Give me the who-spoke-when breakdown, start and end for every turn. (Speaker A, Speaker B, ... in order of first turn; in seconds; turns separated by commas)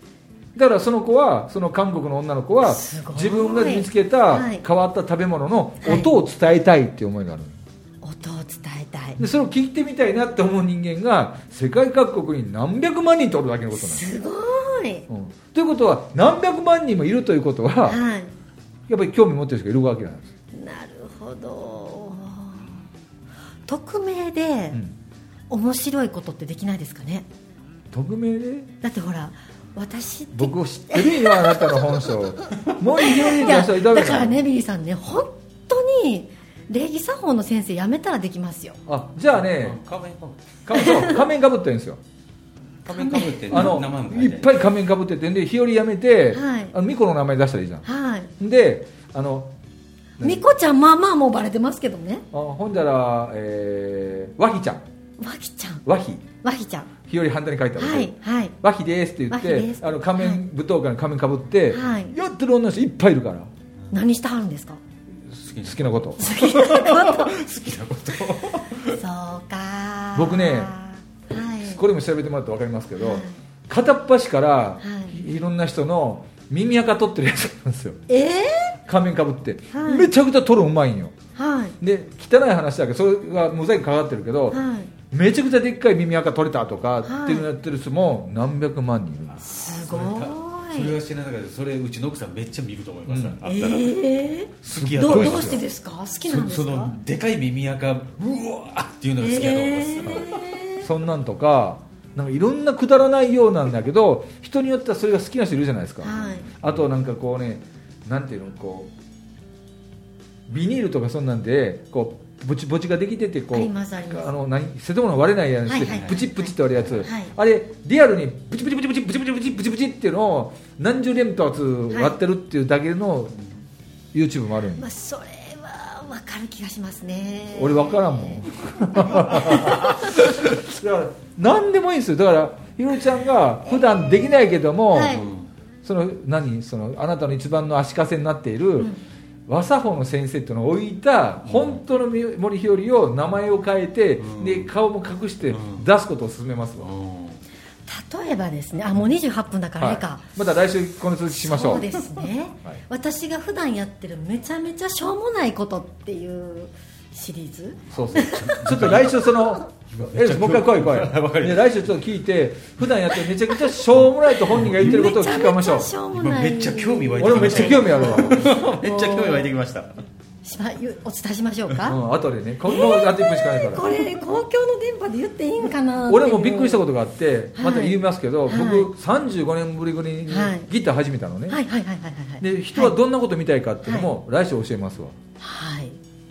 Speaker A: 0.5-7.6, Speaker B: 2.6-4.6, Speaker B: 5.8-6.1, Speaker B: 8.0-9.2, Speaker A: 9.2-14.1, Speaker B: 13.8-15.1, Speaker A: 15.1-18.0, Speaker B: 17.9-18.3, Speaker A: 18.9-20.3, Speaker B: 20.5-22.8, Speaker B: 23.7-24.8, Speaker B: 25.5-27.2, Speaker A: 27.9-28.7, Speaker B: 28.8-32.2, Speaker A: 30.3-34.4, Speaker B: 32.9-38.8, Speaker A: 38.9-39.8, Speaker C: 39.5-40.6, Speaker A: 40.6-42.0, Speaker B: 40.7-41.2, Speaker C: 42.9-44.6, Speaker B: 42.9-43.8, Speaker A: 43.5-47.9, Speaker B: 46.3-46.7, Speaker B: 47.8-48.3, Speaker A: 48.4-49.5, Speaker A: 50.2-50.5, Speaker B: 50.2-52.2, Speaker A: 52.3-54.8, Speaker B: 55.2-55.8, Speaker A: 55.8-56.3, Speaker B: 56.4-56.9, Speaker A: 57.0-63.5, Speaker B: 57.8-58.5, Speaker B: 59.3-60.4, Speaker B: 61.7-62.1, Speaker B: 63.9-64.8, Speaker C: 65.3-69.0, Speaker A: 65.6-66.2, Speaker B: 66.2-67.4, Speaker B: 68.8-71.8, Speaker A: 70.1-70.7, Speaker A: 71.6-78.0, Speaker B: 73.0-73.4, Speaker B: 74.8-75.1, Speaker B: 78.1-78.8, Speaker A: 78.8-81.1, Speaker B: 79.7-80.1, Speaker B: 81.3-81.8, Speaker A: 81.8-89.4, Speaker B: 84.5-84.9, Speaker B: 87.0-87.5, Speaker B: 89.4-90.9, Speaker C: 89.7-93.9, Speaker A: 93.0-93.4, Speaker B: 93.4-97.0, Speaker C: 94.6-95.6, Speaker A: 94.7-95.6, Speaker C: 96.3-100.6, Speaker B: 99.2-100.9, Speaker A: 100.8-108.9, Speaker B: 106.0-106.5, Speaker C: 106.2-106.6, Speaker A: 110.5-123.4, Speaker B: 113.5-114.3, Speaker B: 115.7-117.3, Speaker C: 115.8-116.2, Speaker B: 121.9-122.2, Speaker A: 124.1-124.9, Speaker B: 124.8-130.1, Speaker A: 127.5-135.2, Speaker B: 133.7-134.0, Speaker B: 134.9-135.3, Speaker C: 135.1-135.5, Speaker A: 135.8-138.9, Speaker A: 139.5-146.9, Speaker C: 141.4-141.8, Speaker C: 144.2-144.7, Speaker C: 145.5-145.8, Speaker C: 146.8-147.4, Speaker B: 147.8-150.2, Speaker A: 149.8-151.9, Speaker B: 151.3-158.6, Speaker A: 157.9-165.9, Speaker C: 158.2-159.2, Speaker B: 159.2-159.6, Speaker C: 159.9-161.8, Speaker C: 164.6-165.0, Speaker B: 164.6-169.5, Speaker C: 166.1-170.0, Speaker A: 167.2-168.5, Speaker B: 170.4-172.0, Speaker A: 171.8-173.9, Speaker B: 172.7-176.8, Speaker A: 176.1-181.6, Speaker B: 177.5-178.9, Speaker B: 180.3-180.7, Speaker B: 181.5-182.9, Speaker A: 182.4-185.2, Speaker B: 183.8-184.1, Speaker B: 185.4-186.0